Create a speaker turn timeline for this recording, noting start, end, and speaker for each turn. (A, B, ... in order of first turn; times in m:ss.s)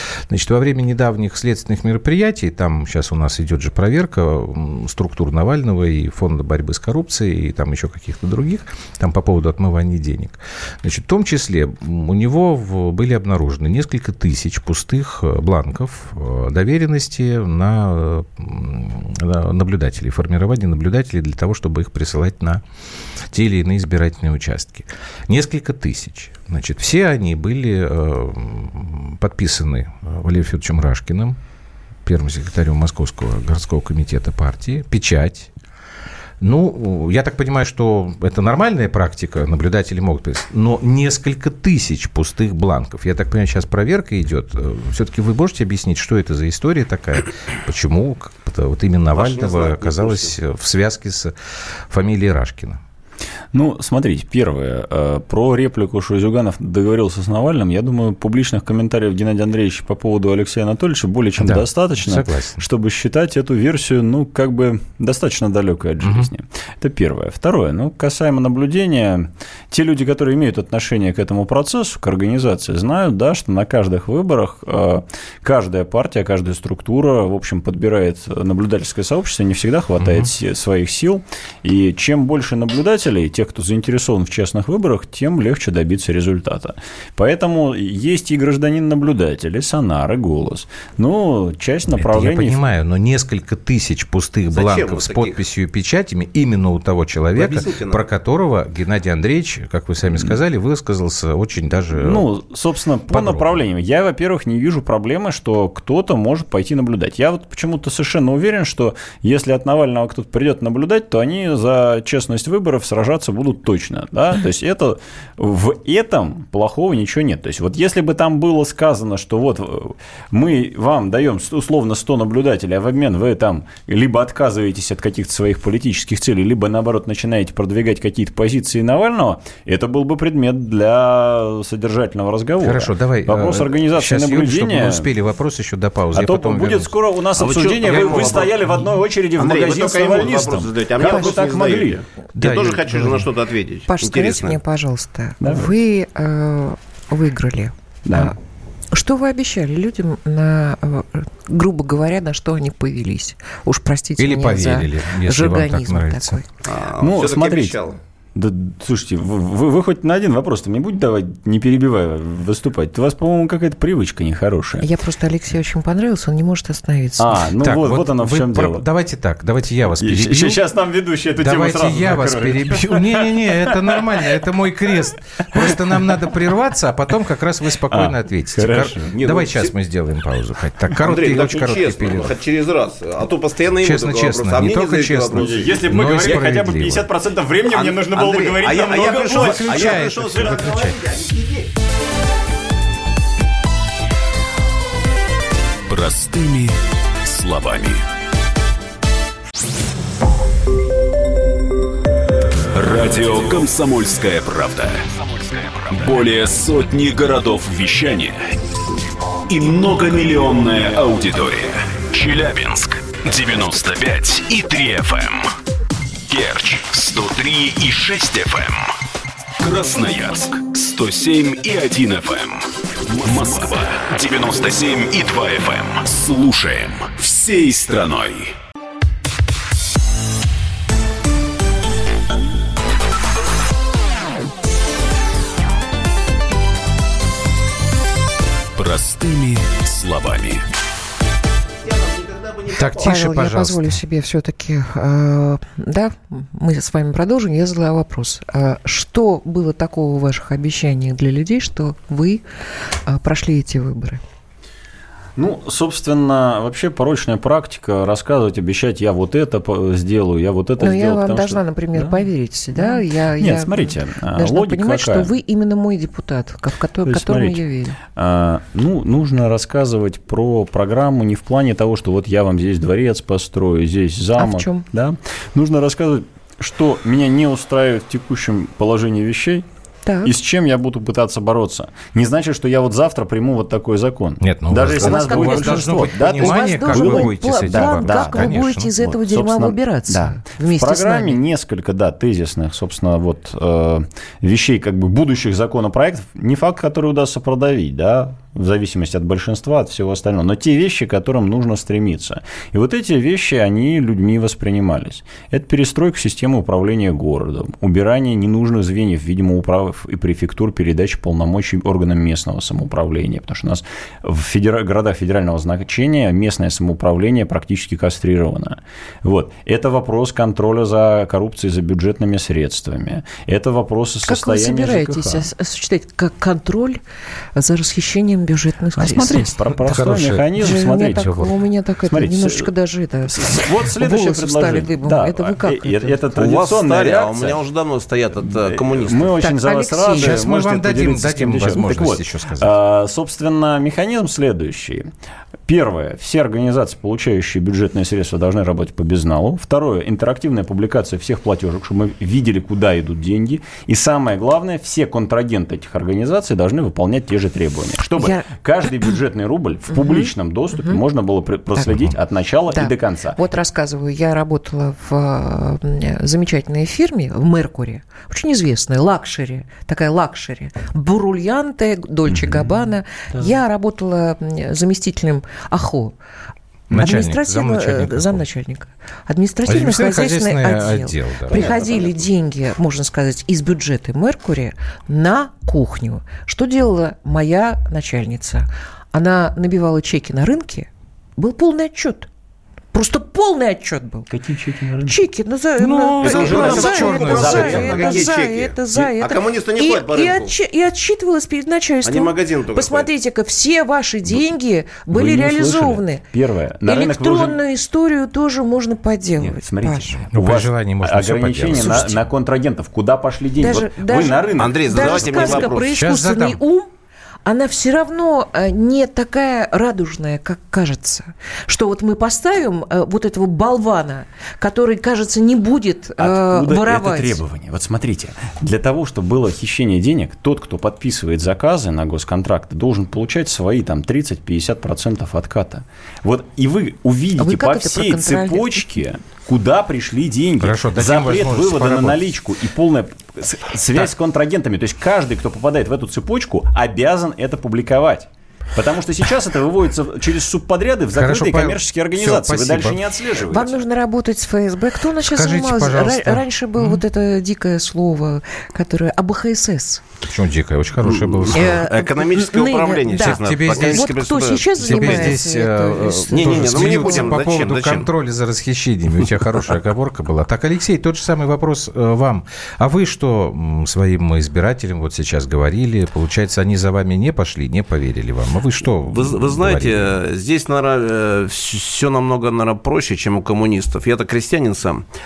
0:00.3-0:22.6 A
0:23.3-0:31.4 A
0:32.0-0:35.5 A
0:36.4-0:51.3 A
0:49.1-0:50.4 B
0:51.9-0:52.8 A
0:53.5-1:32.6 C
1:01.4-1:02.6 A
1:06.0-1:06.3 A
1:20.0-1:20.3 A
1:32.0-1:42.2 A
1:34.5-1:35.4 B
1:37.4-1:38.0 B
1:42.0-2:15.1 C
1:43.1-1:43.5 A
2:12.6-2:16.9 A
2:16.1-2:22.0 C
2:17.4-2:18.5 B
2:17.8-2:18.3 A
2:19.4-2:24.6 B
2:21.0-2:21.4 D
2:22.4-2:23.3 A
2:23.9-2:28.4 D
2:25.4-2:25.7 C
2:28.1-2:28.4 C
2:28.9-2:36.5 D
2:34.2-2:36.4 A
2:36.6-2:38.0 B
2:37.0-2:37.8 C
2:38.4-2:44.9 C
2:44.8-2:47.4 D
2:47.2-2:48.8 C
2:47.6-2:50.6 A
2:50.0-2:54.3 C
2:51.4-3:02.4 A
2:55.4-2:56.4 C
2:57.9-2:59.7 C
3:01.0-3:06.4 B
3:03.8-3:07.1 A
3:05.3-3:10.5 C
3:07.7-3:11.7 B
3:09.3-3:11.0 A
3:15.9-3:18.0 E
3:22.7-3:28.5 E
3:29.5-3:35.5 E
3:36.3-3:38.9 E
3:39.6-3:48.5 E
3:58.8-4:00.6 E
4:01.8-4:03.2 B
4:02.8-4:04.0 A
4:03.0-4:14.2 D
4:15.4-4:25.3 C
4:20.8-4:28.0 D
4:27.0-4:27.6 C
4:28.1-4:39.6 C
4:34.4-4:34.8 D
4:40.0-4:40.3 D
4:40.2-5:25.5 C
4:44.4-4:48.9 A
4:45.0-4:51.4 D
5:24.2-5:27.0 D
5:27.5-5:29.6 D
5:29.0-5:31.4 C
5:29.8-5:31.5 A
5:30.6-5:36.2 D
5:32.1-5:32.7 C
5:33.3-5:37.6 C
5:36.3-5:39.4 B
5:38.4-5:45.1 C
5:39.4-5:40.4 D
5:40.2-5:42.7 A
5:45.7-6:03.4 C
5:58.2-5:58.5 D
5:59.9-6:01.0 D
6:02.7-6:16.1 D
6:16.9-6:18.4 A
6:16.9-6:32.3 D
6:19.6-6:21.7 A
6:21.5-6:22.3 B
6:32.9-6:34.3 D
6:34.3-6:35.2 C
6:35.1-6:46.2 D
6:35.8-6:38.3 A
6:36.2-6:40.5 B
6:42.0-6:43.1 B
6:45.1-6:47.6 C
6:46.8-6:50.2 D
6:49.4-6:55.7 C
6:50.3-6:52.2 A
6:51.8-6:52.1 D
6:53.6-6:56.9 D
6:54.6-6:55.9 B
6:55.8-6:56.6 A
6:57.4-7:07.4 D
7:06.2-7:33.8 C
7:17.4-7:18.9 D
7:20.6-7:22.3 A
7:31.1-7:33.0 A
7:33.5-7:40.0 D
7:35.2-7:37.0 A
7:40.2-7:41.8 A
7:41.0-7:45.4 B
7:41.5-7:47.4 D
7:43.1-8:00.2 A
7:46.3-7:48.1 B
7:59.1-8:05.1 B